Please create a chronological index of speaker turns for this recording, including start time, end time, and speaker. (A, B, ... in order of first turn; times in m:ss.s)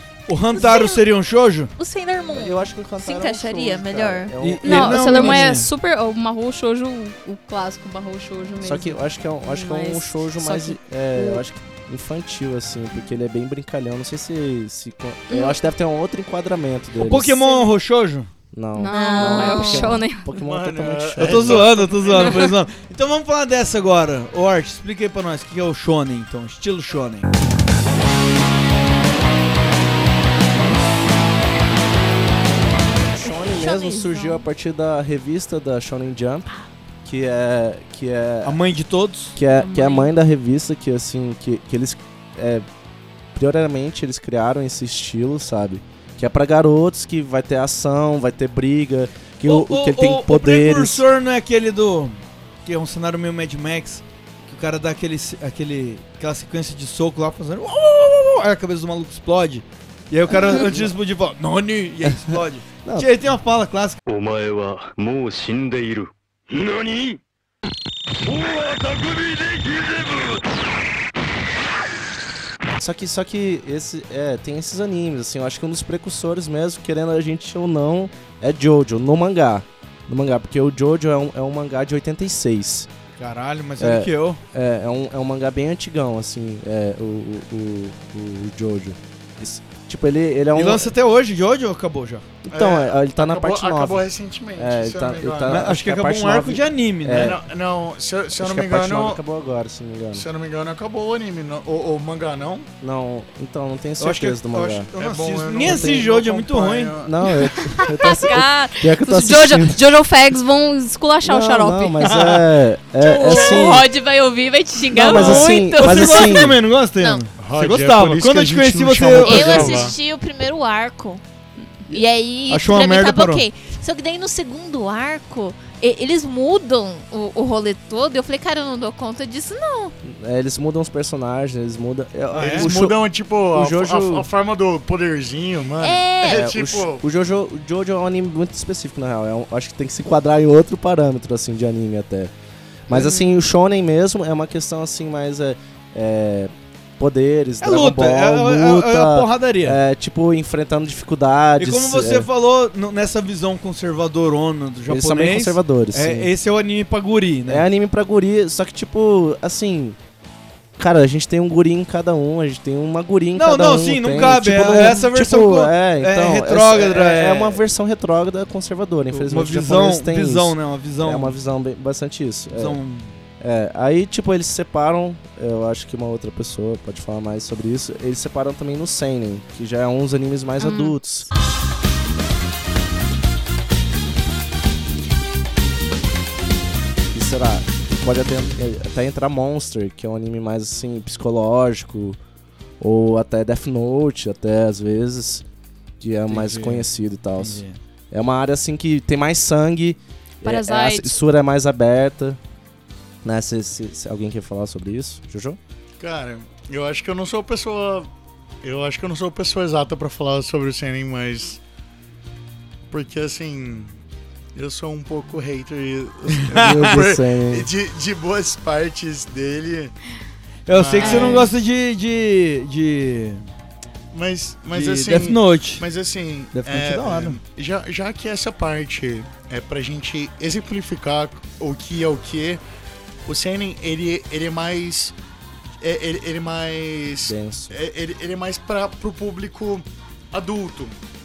0:00.3-0:01.7 A
0:00.6-0:01.0 B
0:01.8-0:04.3 B
0:02.3-0:05.5 C
0:04.4-0:05.7 A
0:04.6-0:11.4 D
0:08.6-0:17.5 C
0:15.3-0:15.6 D
0:17.0-0:18.3 A
0:18.5-0:21.8 C
0:18.8-0:20.3 D
0:18.9-0:20.0 B
0:20.4-0:22.5 E
0:21.2-0:27.3 A
0:33.1-0:36.5 C
0:33.2-0:34.4 B
0:37.0-0:38.6 C
0:38.4-0:39.4 A
0:39.4-0:42.7 C
0:39.6-0:40.1 D
0:43.4-0:51.1 C
0:49.4-1:04.0 A
1:00.3-1:00.9 C
1:02.0-1:03.1 C
1:04.1-1:07.2 F
1:08.2-1:10.4 F
1:12.8-1:22.9 C
1:23.2-1:24.4 A
1:23.8-1:30.9 C
1:30.5-1:32.2 A
1:32.4-1:37.4 C
1:32.5-1:35.7 E
1:35.4-1:37.4 A
1:37.1-1:39.2 E
1:38.4-1:40.3 C
1:40.1-1:42.7 E
1:42.8-1:44.9 C
1:44.0-1:46.9 A
1:45.0-1:47.3 E
1:45.6-1:46.1 C
1:47.0-1:49.8 C
1:47.8-1:52.2 D
1:51.2-1:53.9 C
1:52.0-1:52.4 A
1:53.0-1:56.4 B
1:54.9-1:56.6 C
1:55.0-1:59.9 A
1:57.4-2:00.0 E
1:59.2-2:01.2 B
2:01.9-2:09.9 B
2:02.5-2:03.4 A
2:10.0-2:14.3 C
2:12.3-2:12.7 A
2:12.4-2:17.0 E
2:15.8-2:16.5 B
2:16.2-2:22.3 C
2:22.9-2:32.3 C
2:22.9-2:23.3 D
2:27.6-2:29.8 A
2:31.6-2:37.6 A
2:34.9-2:36.3 C
2:37.5-2:40.0 C
2:40.8-2:52.8 C
2:43.4-2:47.6 A
2:49.1-2:51.4 A
2:52.5-2:53.2 A
2:53.4-3:01.3 C
3:00.6-3:01.0 D
3:07.1-3:12.2 C
3:12.8-3:15.4 C
3:16.0-3:22.4 C
3:16.3-3:17.8 A
3:20.4-3:21.2 D
3:23.2-3:25.6 C
3:26.0-3:28.1 E
3:28.6-3:31.6 E
3:32.9-3:34.0 E
3:34.6-3:39.9 E
3:36.5-3:36.9 A
3:36.5-3:37.7 C
3:40.7-3:43.4 A
3:40.7-3:41.5 E
3:41.0-3:41.5 D
3:44.1-3:52.6 E
3:44.7-3:45.8 A
3:46.5-3:47.4 A
3:53.2-3:55.2 E
3:55.8-4:01.0 E
3:57.2-3:57.8 C